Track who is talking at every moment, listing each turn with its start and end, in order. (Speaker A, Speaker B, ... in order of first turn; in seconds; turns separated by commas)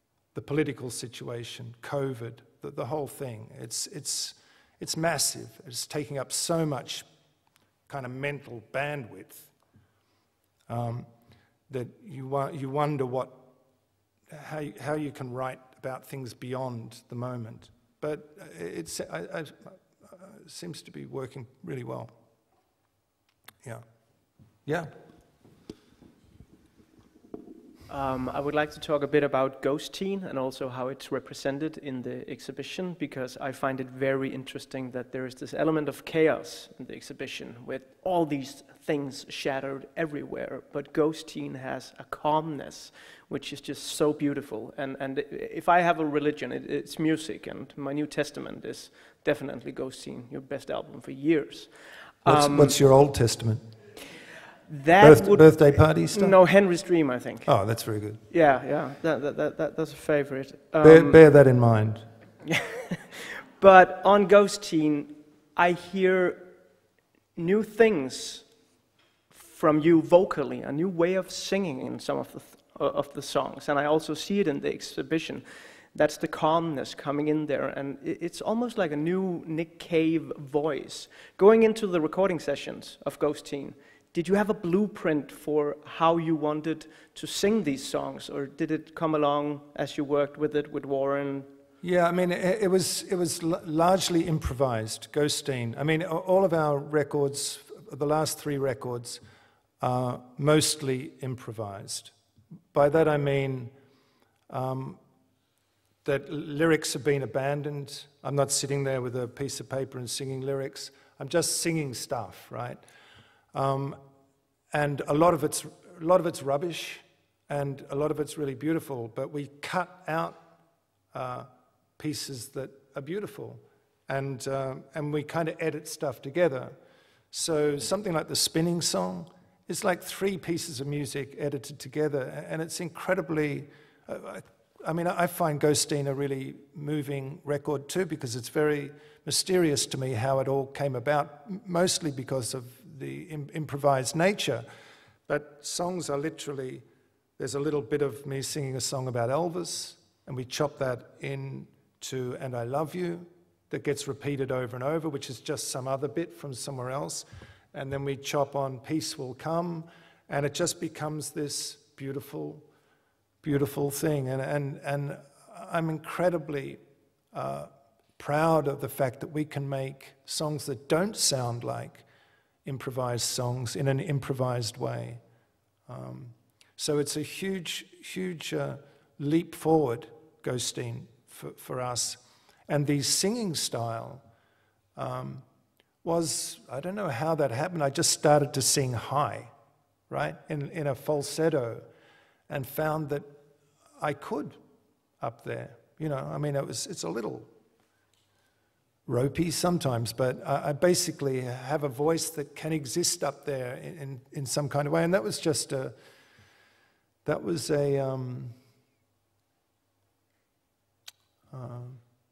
Speaker A: 0.3-7.0, Speaker A: 7.9-9.5, Speaker A: 10.7-11.1, Speaker A: 11.7-13.5, Speaker A: 14.3-22.1, Speaker B: 27.9-51.7, Speaker B: 52.2-52.8, Speaker A: 52.2-53.6, Speaker B: 54.7-57.5, Speaker A: 55.0-56.4, Speaker A: 57.4-58.2, Speaker B: 58.3-61.2, Speaker A: 60.8-62.0, Speaker B: 62.5-66.5, Speaker B: 67.3-68.4, Speaker B: 69.3-91.5, Speaker A: 91.8-99.2, Speaker A: 99.8-102.1, Speaker A: 102.7-103.7, Speaker A: 104.5-105.0, Speaker A: 106.0-112.8, Speaker A: 113.5-114.0, Speaker A: 114.7-120.4, Speaker A: 121.1-126.7, Speaker A: 127.3-144.6, Speaker A: 145.3-146.8, Speaker A: 147.4-162.7, Speaker A: 163.4-166.8, Speaker A: 167.3-172.0, Speaker A: 172.6-175.2, Speaker A: 175.9-184.2, Speaker A: 184.9-185.4, Speaker A: 186.0-189.5, Speaker A: 190.1-191.8, Speaker A: 192.5-193.3, Speaker A: 194.0-194.6, Speaker A: 195.2-197.5, Speaker A: 199.1-205.9, Speaker A: 207.2-208.5, Speaker A: 211.5-212.0